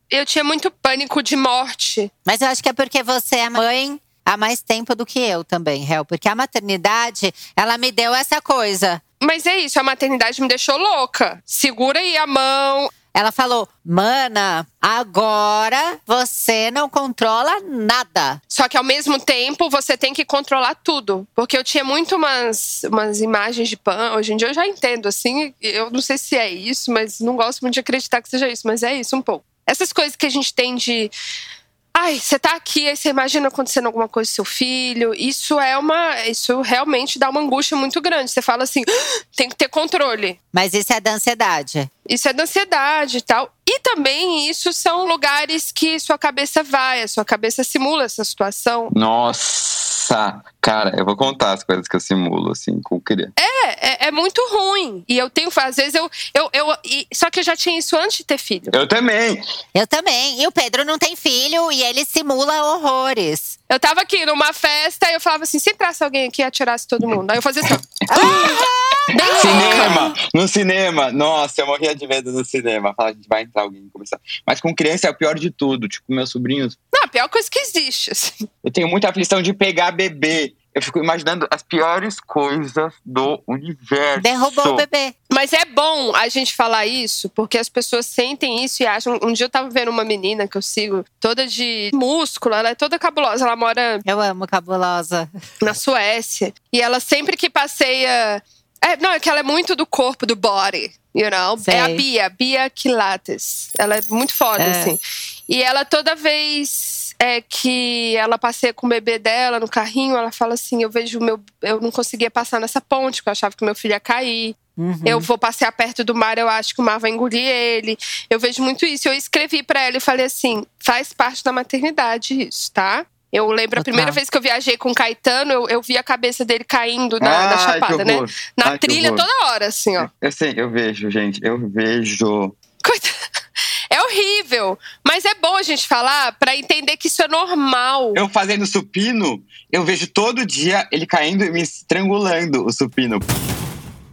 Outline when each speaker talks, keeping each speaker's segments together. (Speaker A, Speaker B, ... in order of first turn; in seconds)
Speaker A: 0.1-2.1, 9.2-12.9, 18.5-31.1, 31.9-40.4, 42.0-48.9, 53.4-58.7, 63.7-68.6, 69.1-70.0, 76.9-78.5, 85.3-94.0, 95.6-130.1, 132.8-133.1, 133.9-138.2
Speaker B: 2.2-9.0, 13.1-18.4, 40.5-41.9, 59.7-63.6, 68.1-70.1, 84.2-85.1, 94.0-95.3, 101.6-102.0, 104.6-105.0, 114.8-115.3, 123.8-124.2
Speaker C: 48.9-53.3, 58.7-59.4, 68.2-68.6, 69.2-76.8, 78.6-84.8, 127.2-129.2, 130.0-132.6, 138.1-143.3